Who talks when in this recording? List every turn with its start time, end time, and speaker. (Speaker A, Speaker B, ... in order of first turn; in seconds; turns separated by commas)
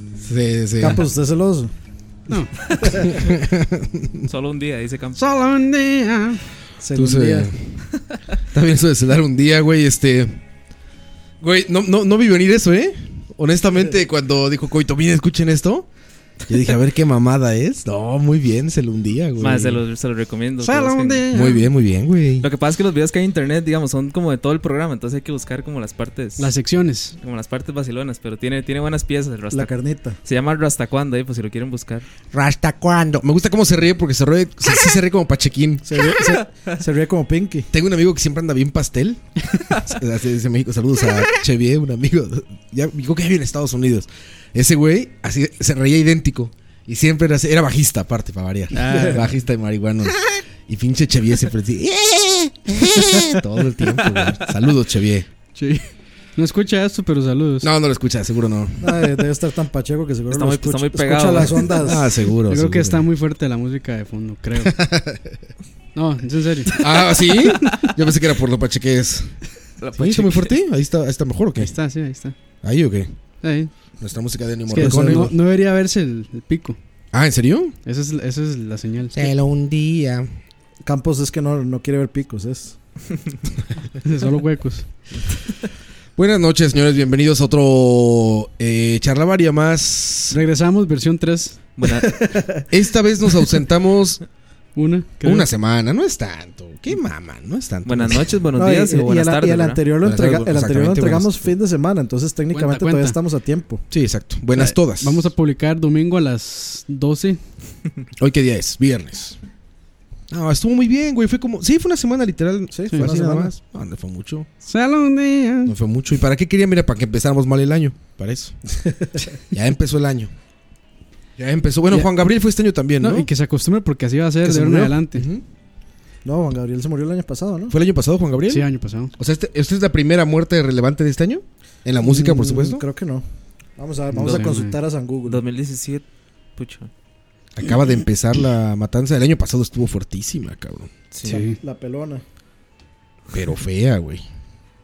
Speaker A: 0.2-1.1, Speaker B: 0.8-1.7, Speaker C: 2.3-2.5, Speaker B: 2.8-3.2, Speaker A: 3.1-4.3, Speaker D: 4.3-5.2, Speaker C: 5.2-6.4, Speaker B: 6.8-7.5, Speaker A: 6.9-7.8, Speaker A: 8.5-10.4, Speaker A: 11.4-15.9, Speaker A: 16.5-19.8, Speaker D: 19.4-21.3, Speaker C: 20.6-21.6, Speaker A: 21.3-22.5, Speaker D: 22.4-26.6, Speaker C: 26.4-27.1, Speaker D: 27.2-32.0, Speaker B: 29.5-30.2, Speaker A: 32.3-36.0, Speaker B: 35.9-37.7, Speaker A: 37.7-55.3, Speaker C: 48.7-49.2, Speaker B: 48.9-49.2, Speaker C: 55.6-55.9, Speaker C: 56.4-57.7, Speaker A: 57.6-59.1, Speaker B: 58.8-62.1, Speaker D: 60.3-61.8, Speaker A: 61.8-63.0, Speaker C: 62.5-64.8, Speaker A: 64.6-65.4, Speaker C: 66.0-66.8, Speaker A: 66.8-69.4, Speaker D: 69.8-70.5, Speaker A: 70.0-71.7, Speaker C: 71.6-72.3, Speaker A: 72.6-73.1, Speaker C: 73.4-73.7, Speaker A: 74.0-75.3, Speaker C: 74.7-76.8, Speaker B: 74.7-75.3, Speaker A: 77.1-77.8, Speaker C: 77.9-79.3, Speaker A: 79.1-80.3, Speaker B: 80.8-82.8, Speaker C: 84.0-84.9, Speaker A: 86.2-90.4, Speaker C: 90.3-91.6, Speaker D: 91.8-92.3, Speaker B: 92.2-92.6, Speaker A: 92.7-94.2, Speaker C: 94.8-95.5, Speaker A: 95.2-98.4, Speaker D: 97.8-99.8, Speaker B: 98.6-103.8, Speaker A: 100.0-101.6, Speaker C: 102.5-103.2, Speaker A: 103.9-105.3, Speaker C: 104.6-107.4, Speaker A: 108.2-109.4, Speaker A: 110.3-114.5, Speaker B: 112.7-113.5, Speaker C: 114.7-115.7, Speaker A: 115.7-118.6, Speaker B: 118.8-119.2, Speaker A: 119.5-120.3, Speaker A: 121.4-123.3, Speaker C: 123.0-125.2, Speaker B: 124.5-125.0, Speaker A: 125.1-125.4, Speaker B: 126.2-127.8, Speaker A: 127.7-132.8, Speaker C: 128.5-129.1, Speaker B: 132.0-133.2, Speaker B: 133.8-135.4, Speaker C: 134.2-134.8, Speaker D: 134.2-134.6, Speaker D: 135.2-136.1, Speaker D: 136.6-136.9, Speaker A: 137.6-140.9, Speaker B: 141.2-142.2, Speaker C: 141.2-141.6, Speaker A: 143.3-144.2